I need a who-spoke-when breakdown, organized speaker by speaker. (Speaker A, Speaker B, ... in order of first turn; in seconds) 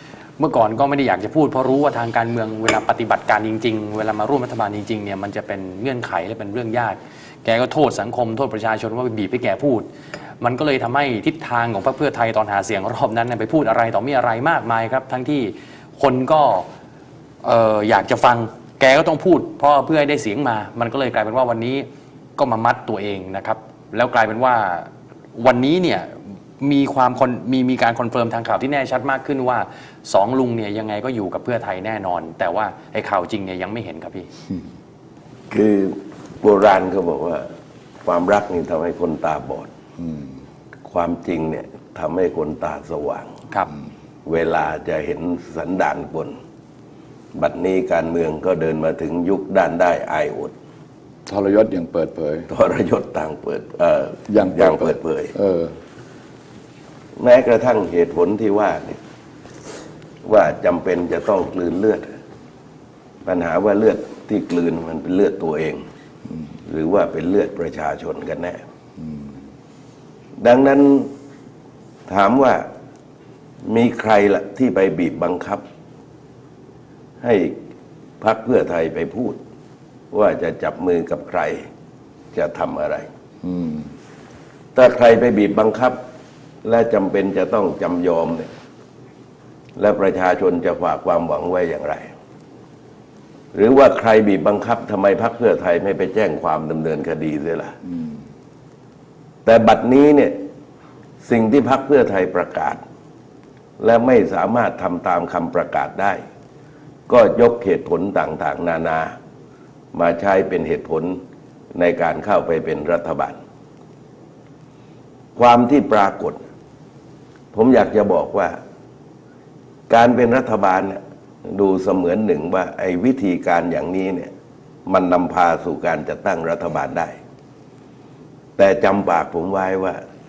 Speaker A: 0.4-9.9, 10.4-16.7, 17.4-34.3
Speaker B: 35.5-37.5, 38.0-39.7, 40.9-43.3, 44.2-46.4, 47.4-50.5, 52.5-55.3, 57.2-59.0, 60.2-62.1, 63.2-65.8, 66.7-68.6, 70.4-71.1, 72.1-72.7, 73.6-75.6, 77.2-77.6, 78.2-79.4, 80.1-81.7, 82.3-83.1, 84.7-86.0, 86.6-88.5, 89.8-92.1, 93.5-97.8, 99.4-100.4, 101.2-102.8, 103.8-106.2, 107.1-109.1, 109.9-111.2, 111.8-113.4, 115.3-116.4, 117.5-118.6, 119.9-124.3, 124.9-127.2, 128.6-130.0
Speaker C: 51.3-52.5, 54.3-55.7, 83.4-83.9